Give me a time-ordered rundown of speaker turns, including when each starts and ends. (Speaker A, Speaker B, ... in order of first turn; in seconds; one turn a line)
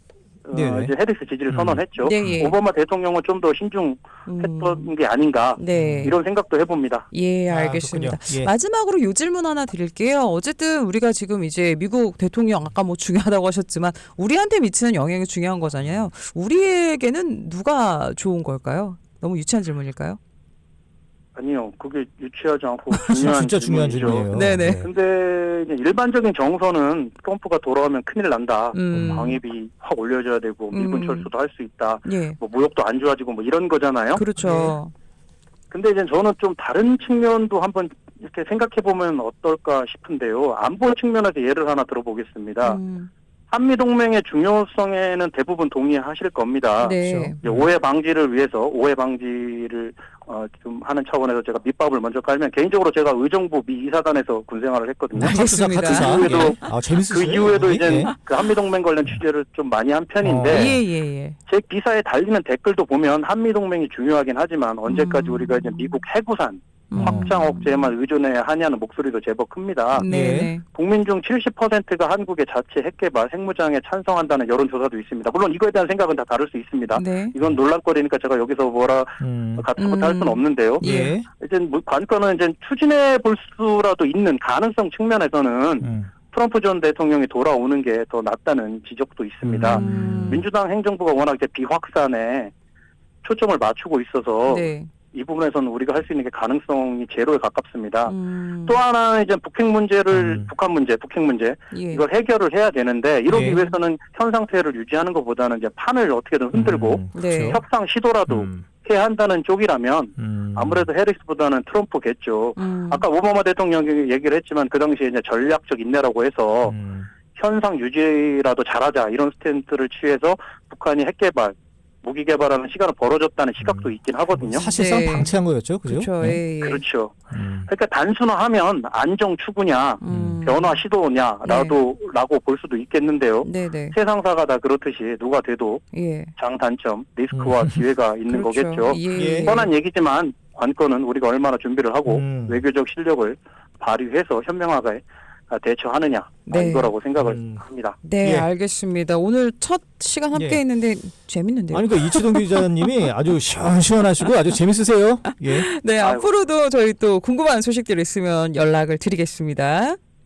Speaker A: 0.4-7.1
Speaker B: 0.5-0.9
Speaker B: 1.5-2.4
Speaker C: 2.0-2.6
Speaker C: 4.2-4.9
Speaker C: 5.6-6.1
Speaker B: 5.7-6.1
Speaker C: 7.1-20.2
Speaker B: 7.5-8.5
Speaker B: 15.7-16.1
Speaker A: 21.4-24.3
Speaker B: 23.1-24.9
Speaker C: 24.3-24.9
Speaker A: 24.8-34.2
Speaker C: 28.7-29.4
Speaker B: 28.9-29.3
Speaker C: 30.7-31.3
Speaker C: 32.0-32.4
Speaker C: 34.1-34.9
Speaker B: 34.4-34.8
Speaker A: 35.7-42.8
Speaker C: 42.6-43.1
Speaker A: 43.5-60.8
Speaker C: 46.8-47.4
Speaker B: 47.0-47.7
Speaker B: 55.1-58.1
Speaker C: 55.2-56.7
Speaker B: 60.2-60.8
Speaker C: 60.5-61.4
Speaker A: 61.5-70.1
Speaker C: 64.8-66.0
Speaker C: 66.9-67.9
Speaker B: 67.0-67.3
Speaker C: 70.0-70.6
Speaker B: 70.0-70.5
Speaker A: 70.7-92.5
Speaker C: 76.9-77.3
Speaker B: 79.2-79.7
Speaker C: 79.8-81.1
Speaker B: 80.8-81.3
Speaker B: 85.8-86.1
Speaker B: 89.4-90.5
Speaker C: 89.7-90.4
Speaker A: 93.2-98.1
Speaker C: 94.5-94.9
Speaker C: 98.1-98.8
Speaker A: 98.7-116.8
Speaker B: 100.1-100.5
Speaker C: 101.7-102.0
Speaker B: 103.3-103.6
Speaker B: 106.5-107.6
Speaker C: 107.1-107.6
Speaker B: 108.3-108.7
Speaker B: 110.2-110.9
Speaker C: 112.6-113.0
Speaker B: 116.6-117.1
Speaker A: 117.3-124.7
Speaker B: 123.6-126.4
Speaker C: 124.6-126.8
Speaker A: 126.6-127.1
Speaker B: 127.3-127.7
Speaker A: 127.7-135.8
Speaker C: 130.0-130.8
Speaker B: 130.1-130.4
Speaker C: 131.4-131.8
Speaker C: 133.4-133.9
Speaker C: 135.9-136.3
Speaker A: 136.4-148.0
Speaker B: 137.3-137.8
Speaker C: 138.3-139.7
Speaker B: 139.1-139.5
Speaker B: 142.1-142.6
Speaker C: 146.5-146.9
Speaker B: 147.2-147.6
Speaker C: 148.0-152.6
Speaker B: 148.2-148.5
Speaker B: 150.3-150.6
Speaker B: 151.7-155.7
Speaker C: 155.3-160.0
Speaker A: 156.0-156.3